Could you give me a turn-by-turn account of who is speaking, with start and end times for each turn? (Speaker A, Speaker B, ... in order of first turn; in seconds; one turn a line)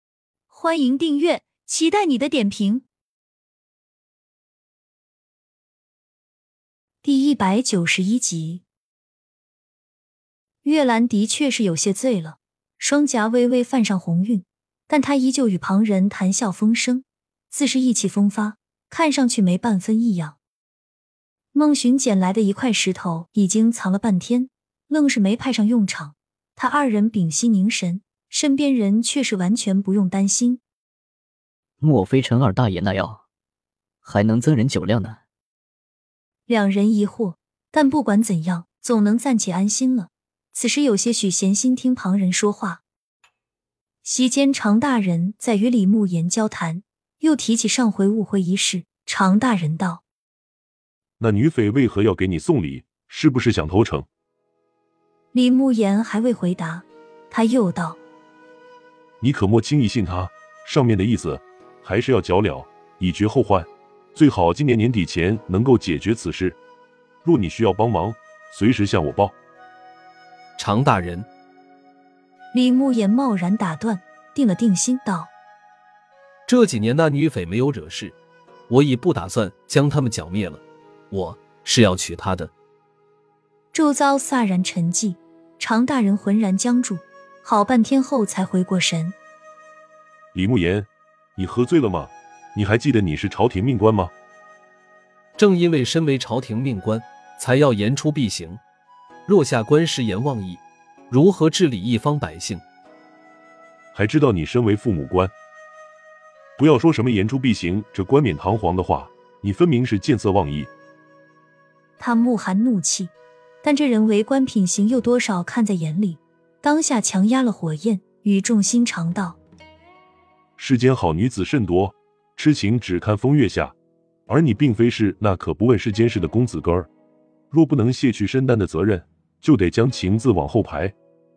Speaker A: 0.5-2.9
Speaker A: 7.0-8.6
Speaker A: 10.6-20.4
Speaker A: 21.5-30.6
Speaker B: 31.8-33.2
Speaker B: 34.0-35.2
Speaker A: 36.5-42.8
Speaker A: 44.0-50.0
Speaker C: 51.2-54.1
Speaker A: 55.3-58.0
Speaker C: 59.2-66.6
Speaker C: 67.2-69.3
Speaker D: 70.6-71.3
Speaker A: 72.5-75.3
Speaker D: 76.5-78.2
Speaker D: 78.7-82.5
Speaker A: 83.7-89.2
Speaker C: 90.3-94.1
Speaker D: 95.4-98.6
Speaker D: 99.3-102.6
Speaker C: 103.9-105.3
Speaker C: 106.6-110.7
Speaker A: 112.0-119.4
Speaker C: 120.6-123.8
Speaker C: 124.3-126.9
Speaker C: 127.5-130.9